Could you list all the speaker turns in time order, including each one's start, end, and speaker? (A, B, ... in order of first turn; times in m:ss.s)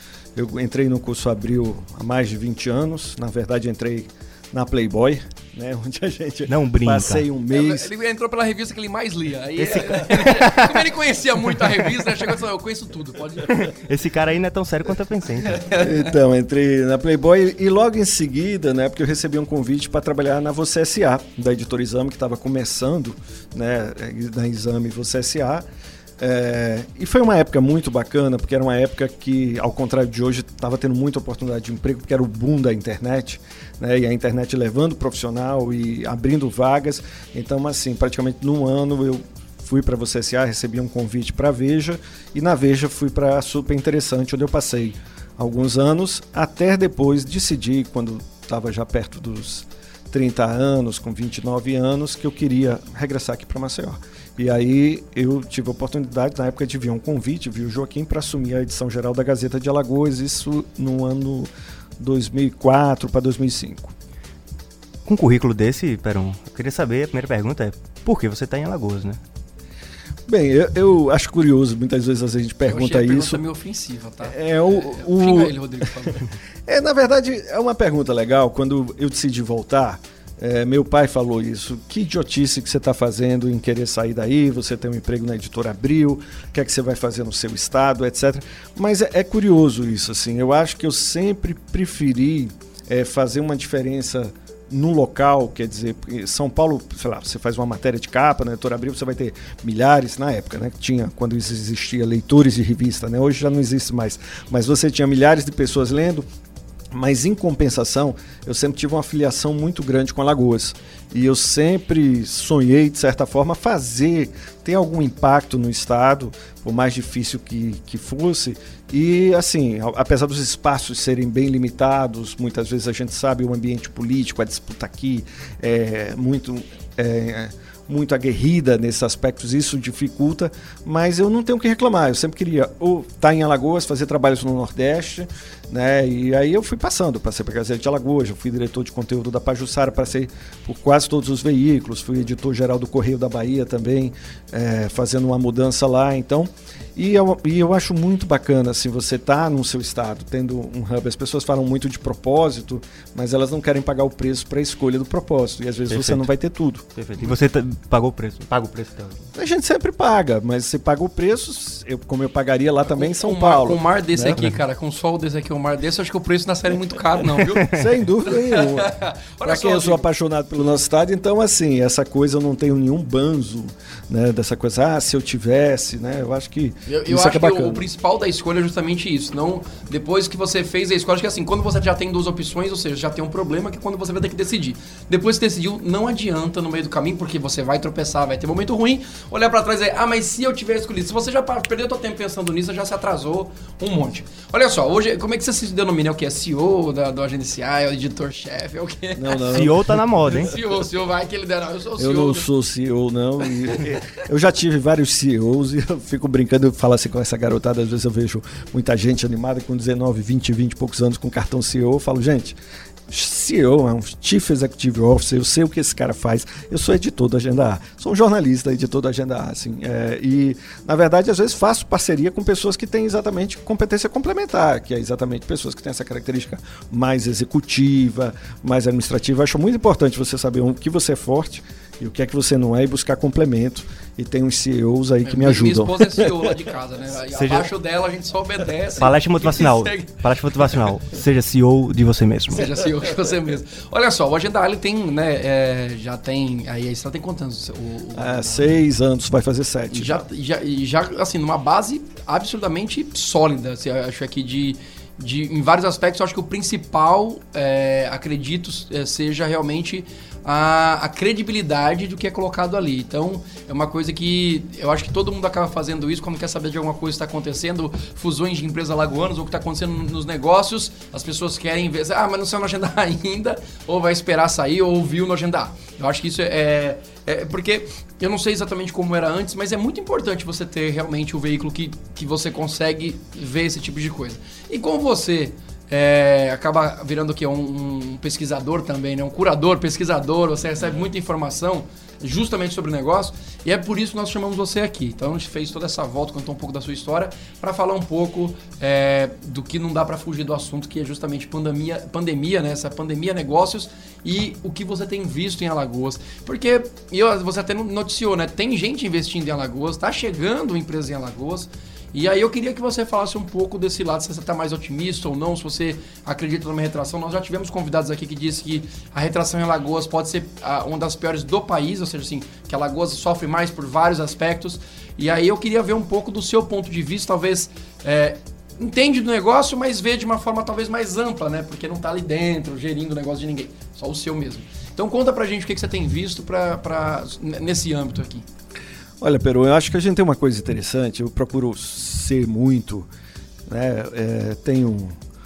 0:00.3-0:07.9 A
0:06.5-0:07.2 B
0:07.5-0:13.6 C
0:09.6-0:10.8 B
0:13.5-0:15.6 B
0:15.5-0:15.8 C
0:15.7-0:25.6 A
0:26.2-1:03.9 A
1:05.0-1:09.2 B
1:10.3-1:13.4 A
1:12.7-1:16.2 C
1:14.2-1:46.2 A
1:46.9-2:36.8 A
2:35.9-2:36.2 B
2:36.9-2:39.3 B
2:39.3-2:44.4 A
2:42.9-2:47.7 C
2:47.4-2:57.8 A
2:48.2-2:50.0 C
2:56.9-3:19.7 C
3:19.1-3:19.9 A
3:19.5-3:20.5 B
3:20.2-3:22.5 C
3:22.0-3:32.6 A
3:33.1-3:56.5 A
3:55.2-4:00.2 C
3:57.3-3:57.7 B
3:59.0-4:02.7 B
4:02.5-4:08.8 C
4:08.2-4:10.2 A
4:09.9-5:38.4 C
5:39.2-5:43.1 A
5:43.7-5:45.2 A